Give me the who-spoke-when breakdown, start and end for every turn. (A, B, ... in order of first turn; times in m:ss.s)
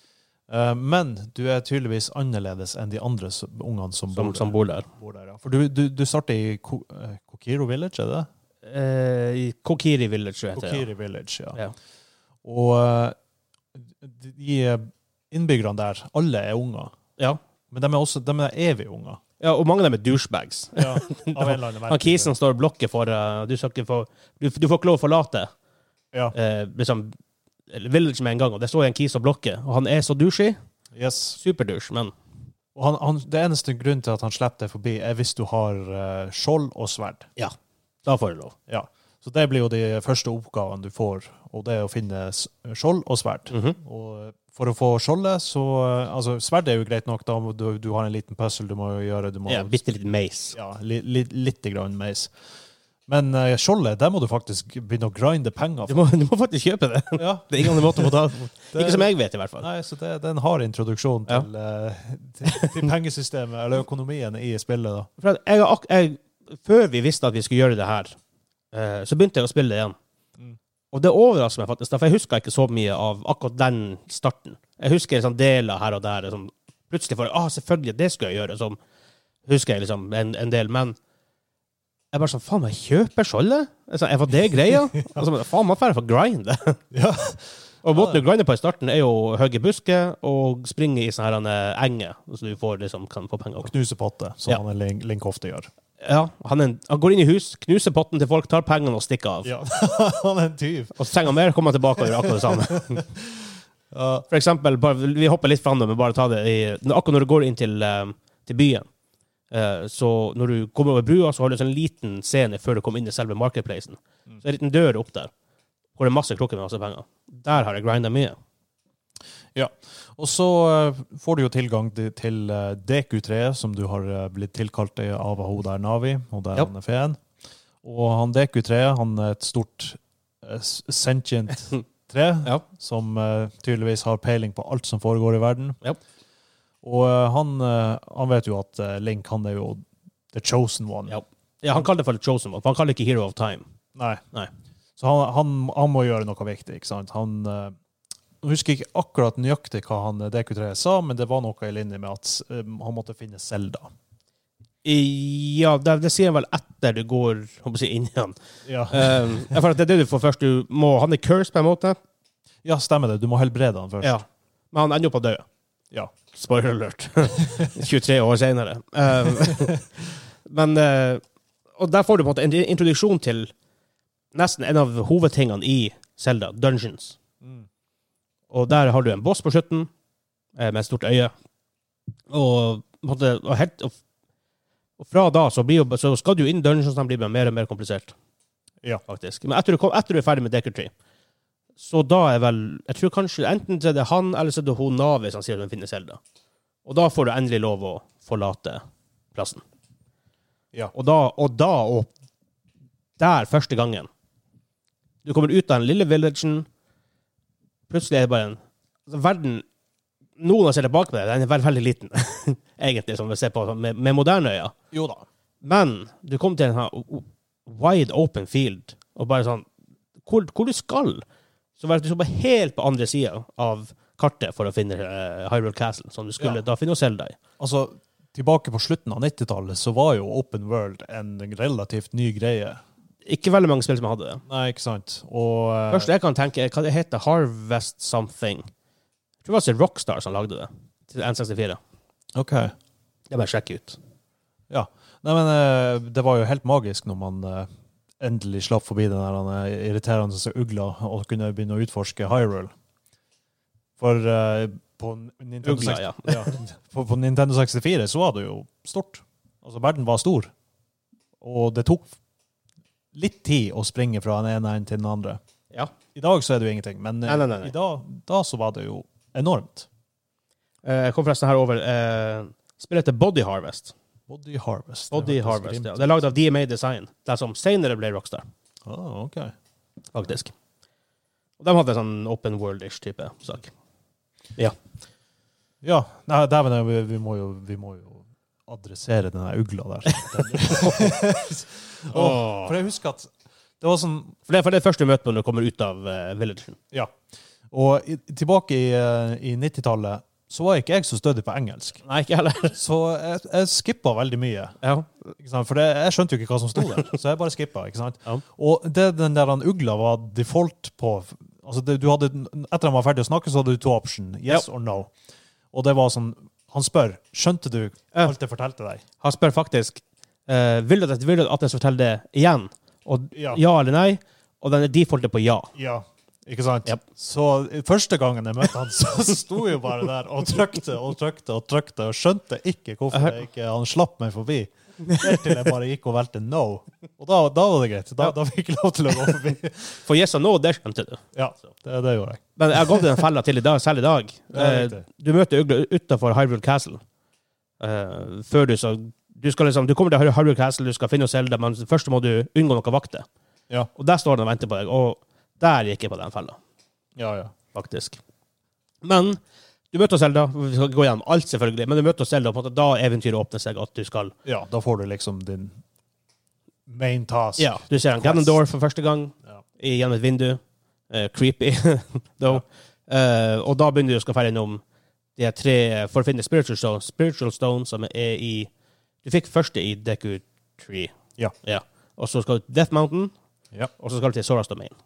0:00.5-0:08.3 A
0:04.1-0:04.8 B
0:08.6-0:10.8 B
0:10.5-0:11.6 A
0:12.4-0:13.2 A
0:13.8-0:16.9 A
0:17.7-0:19.2 A
0:19.4-0:25.5 B
0:20.8-0:22.3 A
0:26.3-0:27.1 B
0:27.7-0:30.6 B
0:30.9-0:31.4 A
0:31.4-0:32.1 B
0:32.7-0:37.3 A
0:37.4-0:38.6 B
0:38.7-0:49.8 A
0:43.5-0:43.8 B
0:49.5-0:50.6 B
0:50.5-0:52.3 A
0:53.1-0:56.0 A
0:55.9-0:59.7 B
0:57.2-1:05.1 A
1:05.2-1:08.2 B
1:08.7-1:10.0 B
1:10.9-1:18.8 B
1:19.4-1:21.0 B
1:22.1-1:26.8 B
1:26.9-1:28.2 A
1:27.8-1:33.7 B
1:33.6-1:35.7 A
1:36.0-1:39.5 B
1:39.4-1:41.3 A
1:41.0-1:43.1 B
1:42.0-1:44.3 A
1:44.3-1:48.9 B
1:49.5-1:55.3 B
1:56.0-1:58.4 B
1:59.5-2:07.2 A
2:07.8-2:15.8 A
2:16.8-2:21.2 A
2:21.1-2:23.6 B
2:23.9-2:24.2 A
2:25.0-2:27.8 A
2:28.4-2:33.9 A
2:34.8-2:38.4 B
2:38.6-2:39.5 A
2:38.9-2:42.0 B
2:42.6-2:44.2 A
2:44.0-2:45.4 B
2:46.3-2:49.8 B
2:50.4-2:51.2 B
2:51.8-2:53.5 B
2:54.3-2:57.2 B
2:57.4-2:57.7 A
2:58.5-2:59.9 B
3:00.6-3:01.3 B
3:02.3-3:03.9 B
3:05.0-3:08.1 B
3:09.1-3:10.9 B
3:11.8-3:16.2 B
3:16.8-3:18.8 B
3:19.3-3:19.6 B
3:20.9-3:22.1 B
3:23.2-3:24.1 B
3:25.2-3:26.7 B
3:27.9-3:29.6 B
3:30.4-3:34.7 B
3:34.9-3:35.2 A
3:35.6-3:39.6 B
3:40.2-3:41.2 B
3:41.8-3:47.3 B
3:47.6-3:52.8 A
3:53.2-3:54.4 B
3:54.5-3:56.1 A
3:55.9-3:58.7 B
3:59.4-4:01.8 B
4:02.3-4:02.7 A
4:03.3-4:04.0 B
4:04.7-4:07.7 A
4:08.2-4:12.7 A
4:14.0-4:20.5 A
4:15.6-4:16.5 B
4:21.4-4:22.1 A
4:23.1-4:25.4 A
4:26.1-4:29.9 A
4:27.2-4:27.7 B
4:30.8-4:33.9 B
4:34.3-4:36.3 A
4:35.1-4:38.4 B
4:38.8-4:39.5 A
4:40.1-4:40.5 B
4:41.6-4:43.7 B
4:45.8-4:54.4 A
4:50.1-4:51.2 B
4:52.1-4:52.7 B
4:54.5-4:56.8 B
4:57.7-5:02.0 A
5:02.0-5:02.8 B
5:02.7-5:04.8 A
5:04.8-5:05.1 B
5:05.4-5:15.1 A
5:15.7-5:19.0 A
5:19.2-5:25.7 B
5:23.3-5:23.6 A
5:25.7-5:40.0 A
5:35.0-5:35.6 B
5:40.0-5:41.2 B
5:41.3-5:43.2 A
5:42.6-5:47.0 B
5:44.5-5:45.0 A
5:47.8-5:53.2 B
5:53.9-5:56.6 B
5:57.2-5:57.5 A
5:57.7-5:58.2 B
5:59.0-5:59.4 B
5:59.9-6:04.3 B
6:04.4-6:05.8 A
6:06.9-6:08.6 A
6:07.6-6:14.8 B
6:15.4-6:18.7 B
6:19.2-6:23.3 B
6:24.0-6:25.0 B